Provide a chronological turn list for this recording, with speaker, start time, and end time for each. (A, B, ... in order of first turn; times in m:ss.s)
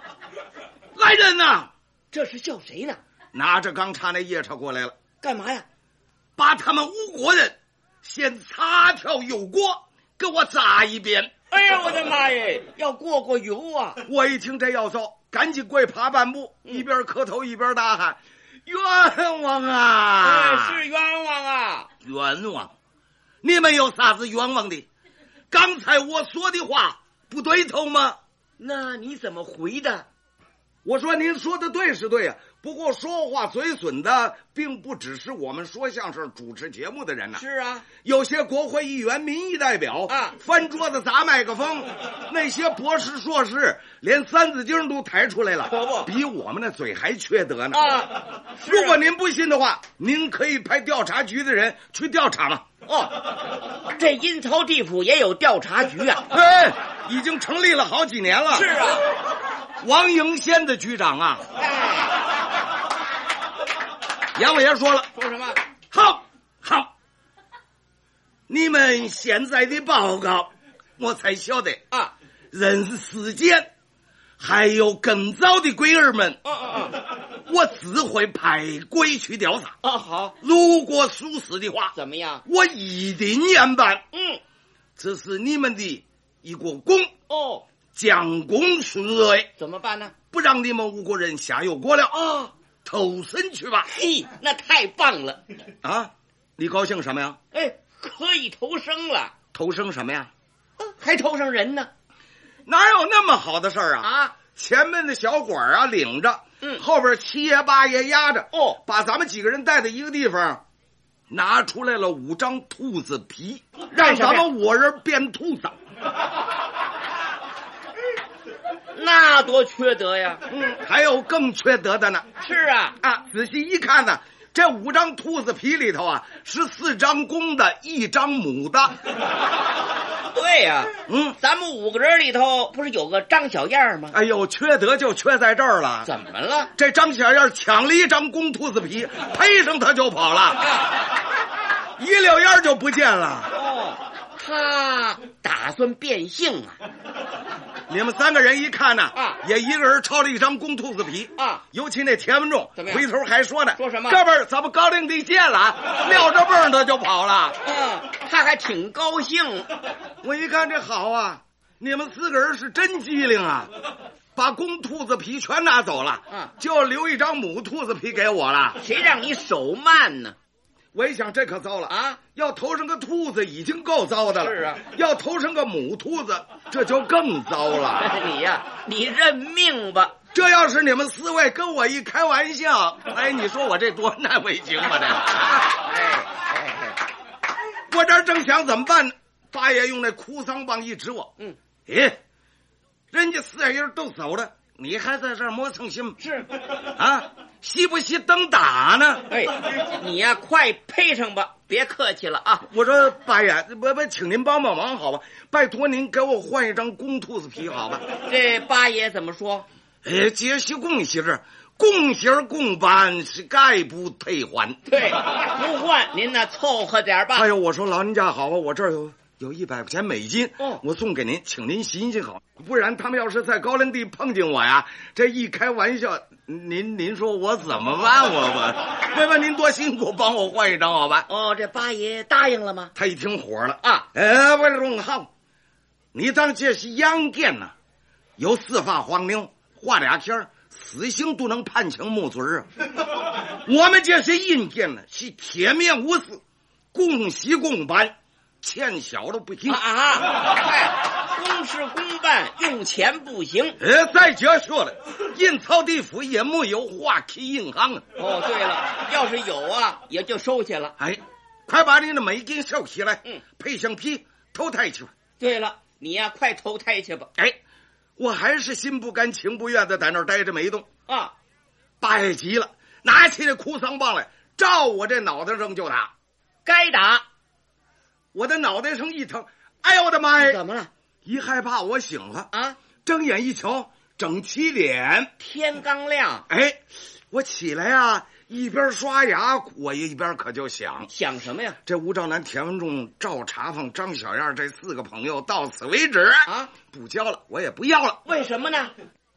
0:00.9-0:01.7 A
0:02.1-0:03.0 B
0:03.3-0:05.0 A
0:05.2-0:05.6 B
0:06.4-0:11.3 A
0:11.5-0:14.0 B
0:14.0-0:20.8 A
0:20.2-0:21.9 B
0:22.0-0:22.7 A
0:23.4-0:24.9 A
0:25.5-0:28.2 A
0:28.6-0:30.0 B
0:30.8-0:37.4 A
0:37.4-0:37.8 B
0:38.0-0:48.0 A
0:40.1-0:40.3 B
0:45.7-0:46.1 B
0:47.7-0:49.0 B
0:48.7-0:52.7 A
0:52.9-0:53.3 B
0:54.0-0:56.2 B
0:56.3-0:58.7 A
0:58.5-0:59.0 B
0:59.8-1:01.4 A
1:01.6-1:02.3 B
1:04.4-1:05.1 A
1:05.2-1:05.6 B
1:05.9-1:06.9 A
1:08.5-1:11.8 A
1:12.5-1:13.7 A
1:14.4-1:16.4 A
1:16.4-1:17.0 B
1:17.5-1:19.7 A
1:19.8-1:20.3 B
1:20.4-1:21.9 A
1:22.0-1:22.4 B
1:22.4-1:24.0 A
1:24.1-1:24.4 B
1:25.0-1:27.1 A
1:27.3-1:27.6 B
1:27.9-1:29.5 A
1:29.6-1:30.1 B
1:30.3-1:32.1 A
1:32.1-1:32.5 B
1:32.8-1:33.9 A
1:33.9-1:35.4 B
1:35.8-1:37.4 A
1:37.5-1:39.3 B
1:39.5-1:40.3 A
1:40.8-1:41.9 B
1:42.6-1:50.6 A
1:44.0-1:44.3 B
1:48.5-1:48.8 B
1:51.3-1:55.8 A
1:53.9-1:54.4 B
1:58.9-2:00.4 B
2:00.5-2:02.3 A
2:02.4-2:03.0 B
2:03.0-2:09.0 A
2:10.3-2:14.1 B
2:11.1-2:11.3 A
2:14.1-2:16.1 A
2:16.0-2:16.7 B
2:16.8-2:20.7 A
2:20.6-2:21.0 B
2:22.0-2:23.5 A
2:23.5-2:26.8 B
2:27.9-2:37.6 A
2:32.8-2:33.0 B
2:33.8-2:34.2 B
2:37.6-2:39.7 B
2:40.2-2:43.7 A
2:44.3-2:48.8 A
2:48.8-2:50.4 B
2:50.9-2:58.1 A
2:51.9-2:52.2 B
2:54.4-2:54.8 B
2:58.0-3:00.1 B
3:00.3-3:05.6 A
3:05.4-3:07.0 B
3:07.9-3:11.3 A
3:11.9-3:12.2 A
3:13.1-3:16.2 A
3:16.2-3:16.5 B
3:16.9-3:19.3 A
3:19.3-3:22.6 B
3:22.7-3:28.0 A
3:28.2-3:29.7 B
3:30.0-3:34.8 A
3:34.9-3:37.5 B
3:37.3-3:51.3 A
3:51.3-3:52.9 B
3:52.9-3:55.3 A
3:56.1-3:57.7 A
3:58.4-4:02.7 A
4:03.6-4:06.4 A
4:06.9-4:09.8 A
4:09.7-4:13.8 B
4:13.8-4:18.0 A
4:18.2-4:20.9 B
4:21.0-4:25.1 A
4:25.4-4:27.3 B
4:28.2-4:30.9 A
4:31.1-4:31.3 B
4:32.0-4:36.1 A
4:36.6-4:37.2 B
4:38.3-4:40.6 A
4:40.4-4:40.9 B
4:41.2-4:42.5 A
4:42.5-4:42.8 B
4:43.0-4:45.3 A
4:45.4-4:46.4 B
4:46.5-4:51.1 A
4:51.1-4:51.8 B
4:51.8-4:58.2 A
4:58.2-4:58.9 B